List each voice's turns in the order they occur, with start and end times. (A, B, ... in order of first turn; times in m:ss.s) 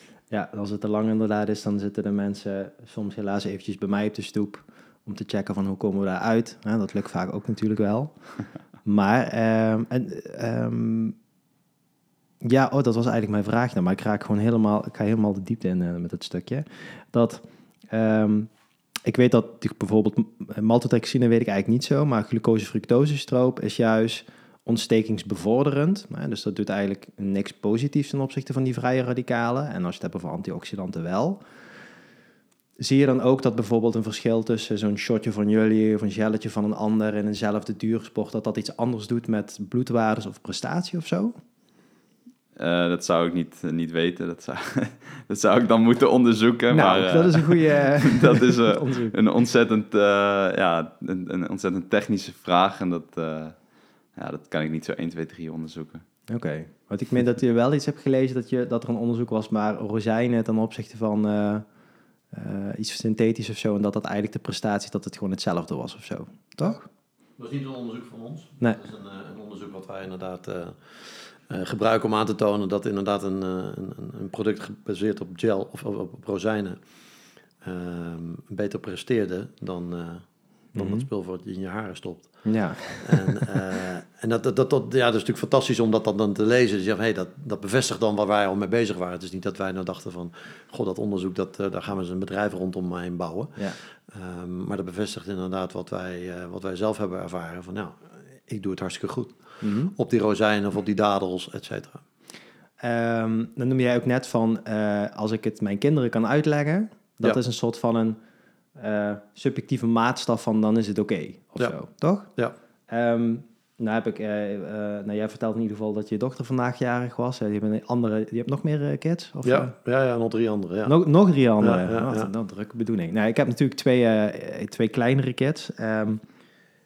0:00.3-0:11.1 A
0:12.4-0:18.5 A
0:19.1-0:31.4 A
0:32.8-0:41.4 A
0:42.6-0:53.6 B
0:46.7-0:49.1 A
0:54.1-0:56.0 B
0:56.3-1:01.6 A
1:02.3-1:06.9 A
1:07.4-1:16.8 C
1:17.6-1:22.5 C
1:20.8-1:21.1 A
1:22.4-1:23.4 A
1:23.0-1:39.4 C
1:39.6-1:39.9 A
1:39.9-1:42.0 C
1:42.8-1:48.2 A
1:48.8-1:52.3 A
1:52.9-1:59.7 A
1:59.4-2:00.9 C
2:00.9-2:06.2 A
2:01.6-2:02.3 C